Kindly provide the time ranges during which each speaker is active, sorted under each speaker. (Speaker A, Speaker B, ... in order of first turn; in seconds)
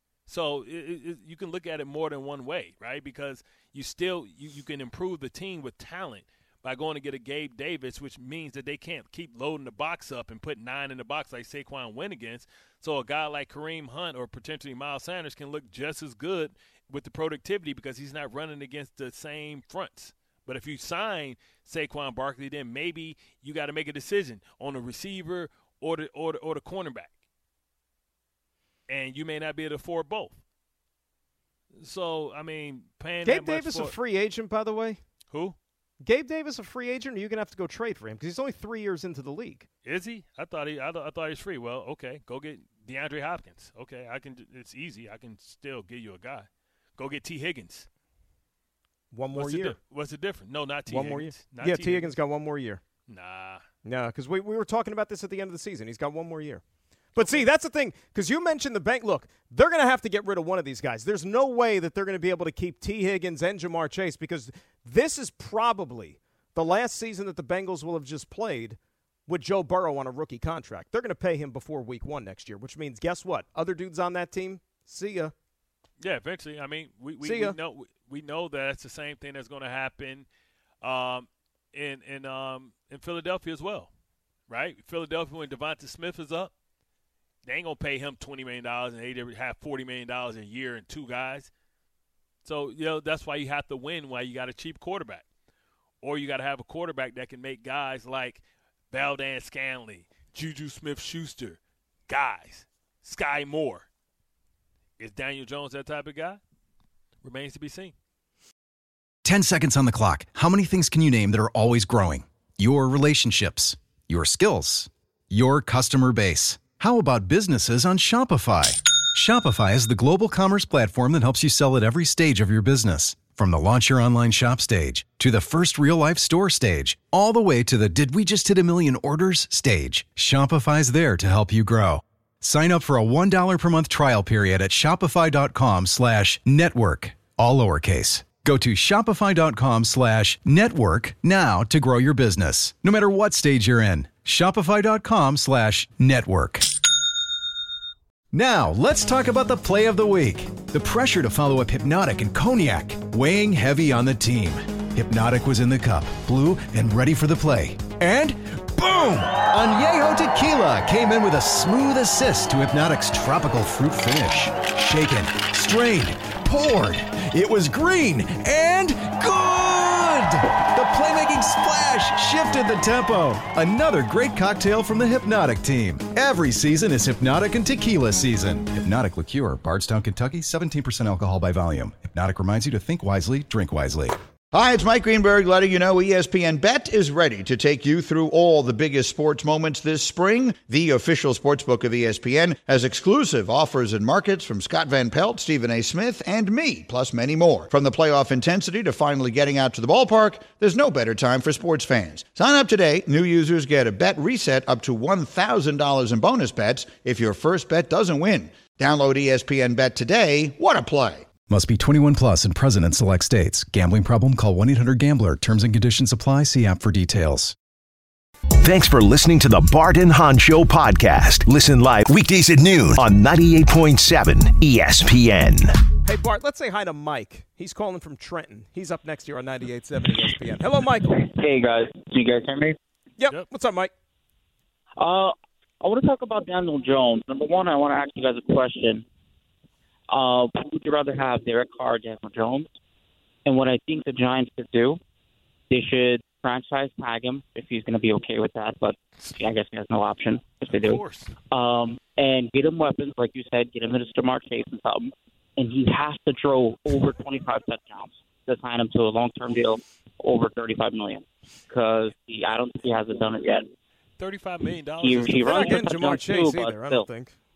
Speaker A: 0.3-27.1, 28.9-30.3, 31.8-34.0, 35.3-35.6, 39.8-47.9, 49.3-52.1, 53.1-53.6, 57.2-57.5, 76.0-80.3, 80.8-83.9, 84.5-86.5, 87.4-91.5, 92.4-95.2, 96.0-103.8, 105.0-106.4, 107.2-107.9, 250.7-251.4, 264.2-266.1
Speaker B: 33.2-35.0, 36.0-39.7, 49.1-49.8, 50.9-52.8, 53.8-56.6, 57.1-75.3, 77.2-77.5, 226.0-231.2, 233.2-233.9, 265.4-267.3
Speaker C: 109.2-146.7, 148.3-184.2, 211.5-217.6
Speaker D: 184.5-211.3
Speaker E: 218.6-225.8
Speaker F: 231.1-232.8, 235.0-239.0, 240.1-242.7, 243.4-245.0, 245.7-263.7, 265.0-267.1